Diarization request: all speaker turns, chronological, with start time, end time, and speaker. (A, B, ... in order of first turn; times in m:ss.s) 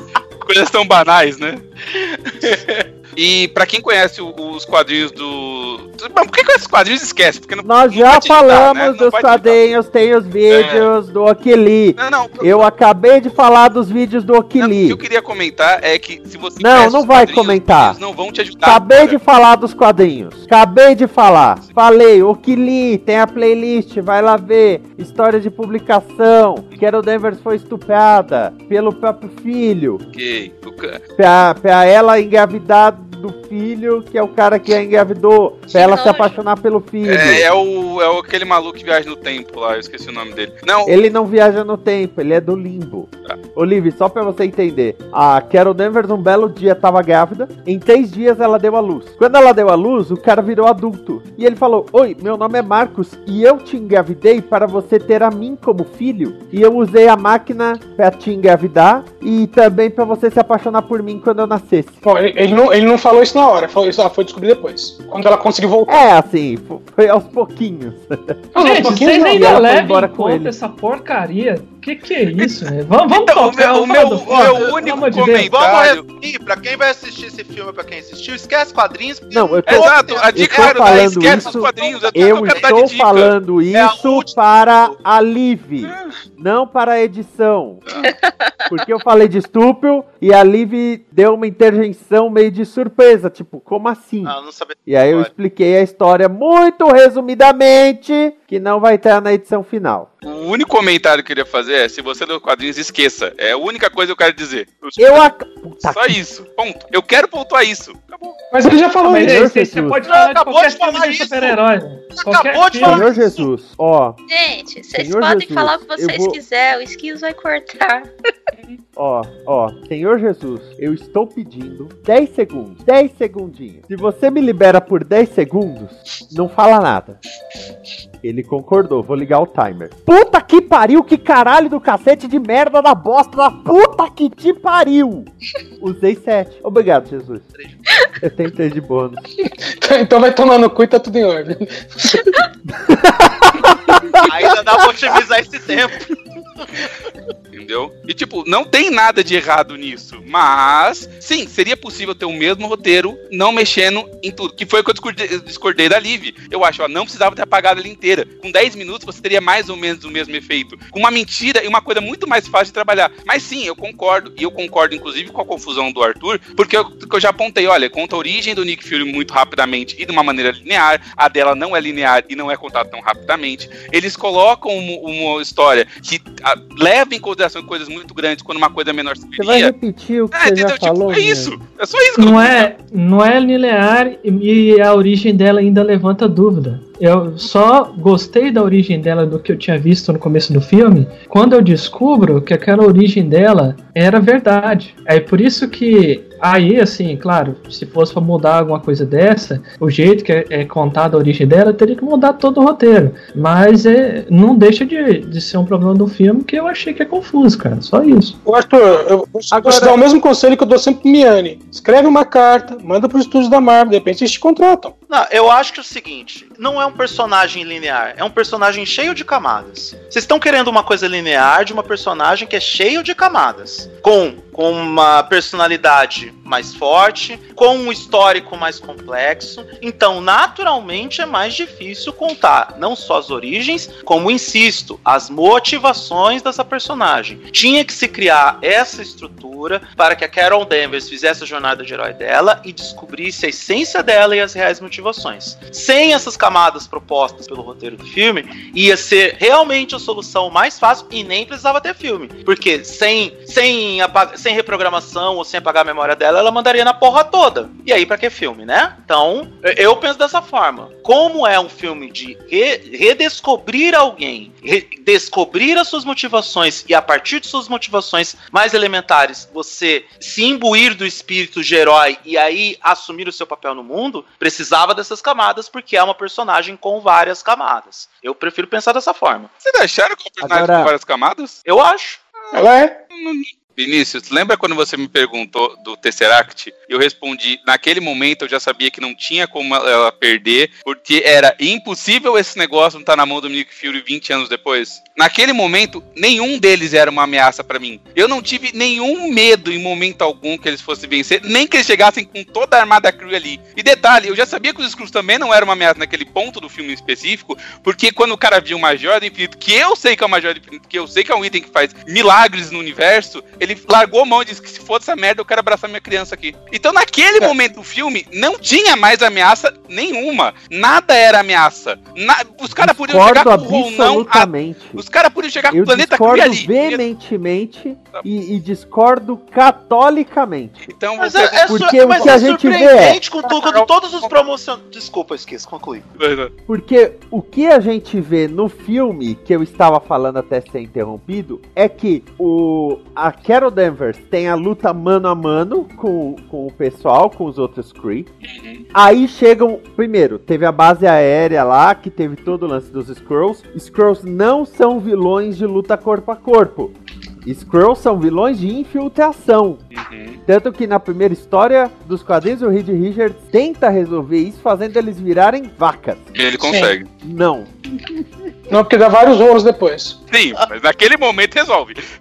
0:00.4-0:09.6 A
0:07.6-0:15.0 B
0:10.5-0:10.9 A
0:12.0-0:12.7 A
0:14.6-0:19.2 A
0:16.6-0:18.0 B
0:18.6-0:30.0 B
0:30.1-0:31.0 A
0:31.2-0:37.5 B
0:35.7-0:36.4 C
0:37.0-0:41.0 A
0:40.8-1:02.0 B
1:02.0-1:06.0 D
1:05.9-1:10.5 B
1:08.6-1:09.7 D
1:08.6-1:15.6 E
1:12.3-1:16.0 A
1:15.5-1:22.7 F
1:19.3-1:27.8 B
1:19.7-1:23.3 A
1:23.7-1:24.9 F
1:25.8-1:26.1 A
1:28.2-1:28.5 C
1:28.7-1:34.4 B
1:34.2-1:35.3 F
1:34.9-1:40.1 B
1:40.2-1:45.3 A
1:45.0-1:46.2 B
1:45.8-1:48.4 A
1:48.5-1:49.5 D
1:49.1-1:50.0 B
1:49.1-1:53.1 E
1:50.1-1:51.6 F
1:52.2-1:53.5 F
1:52.8-1:54.2 B
1:54.3-1:58.1 C
1:55.0-1:56.4 B
1:59.0-2:07.2 B
2:08.2-2:15.3 B
2:15.8-2:17.5 B
2:18.2-2:19.2 B
2:19.4-2:22.2 D
2:22.7-2:25.2 B
2:24.2-2:26.1 F
2:27.5-2:59.7 A
2:59.4-3:01.6 B
3:00.3-3:02.7 A
3:02.2-3:28.4 E
3:28.4-3:34.9 D
3:29.5-3:30.0 B
3:35.1-4:39.5 F
4:39.6-4:41.6 A
4:40.4-4:40.9 B
4:41.7-4:42.2 F
4:42.5-4:43.0 D
4:43.1-5:27.0 A
5:22.8-5:25.0 B
5:25.7-5:31.0 B
5:30.8-5:32.5 A
5:31.2-5:36.1 F
5:31.7-5:33.2 B
5:33.5-5:33.8 A
5:36.2-5:36.5 A
5:36.7-5:48.3 B
5:48.4-5:48.8 A
5:48.9-5:59.8 B
5:59.9-6:00.4 A
6:00.5-6:06.4 B
6:06.4-6:07.1 A
6:06.6-6:06.9 D
6:07.2-6:07.7 B
6:08.7-6:10.2 D
6:10.3-6:12.0 A